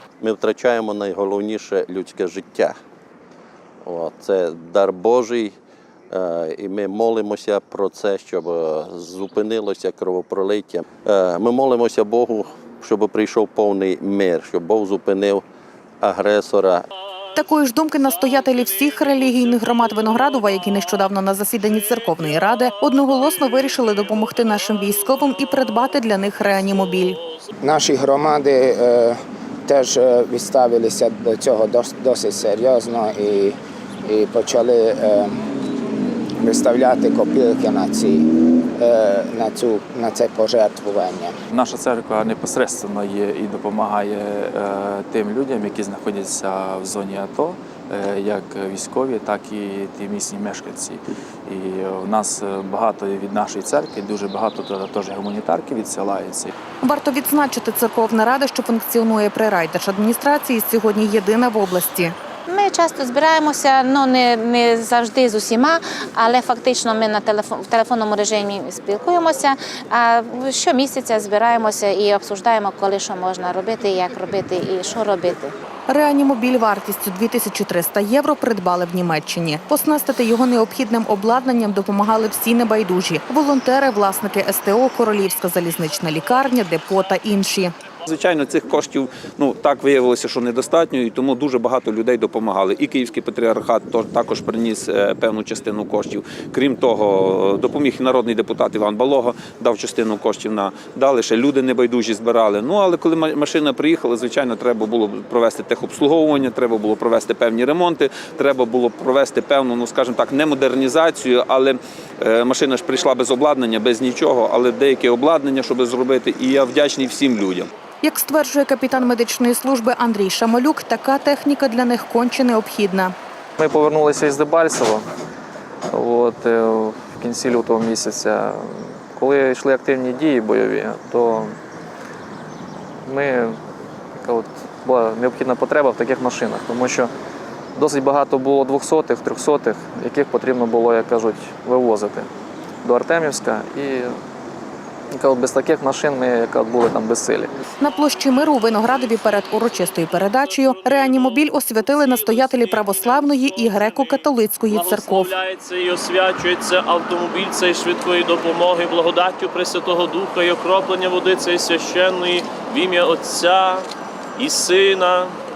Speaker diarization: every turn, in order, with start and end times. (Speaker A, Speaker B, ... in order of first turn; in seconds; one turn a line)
Speaker A: 0.2-2.8
Speaker A: 3.8-5.5
Speaker A: 6.1-15.4
Speaker A: 16.0-16.9
Speaker B: 17.4-27.2
Speaker C: 27.6-35.4
Speaker C: 36.4-41.4
Speaker D: 41.5-56.5
Speaker B: 56.8-62.1
Speaker E: 62.5-75.5
Speaker B: 75.9-87.7
Speaker F: 88.1-117.7
Speaker B: 118.0-123.1
Speaker G: 123.6-125.1
Speaker G: 125.9-131.6
Speaker G: 133.1-133.6
Speaker G: 134.2-137.1
Speaker G: 137.8-142.3
Speaker G: 142.8-144.2
Speaker G: 145.1-147.6
Speaker B: 147.8-155.3
Speaker H: 154.9-163.8
Speaker H: 164.4-165.3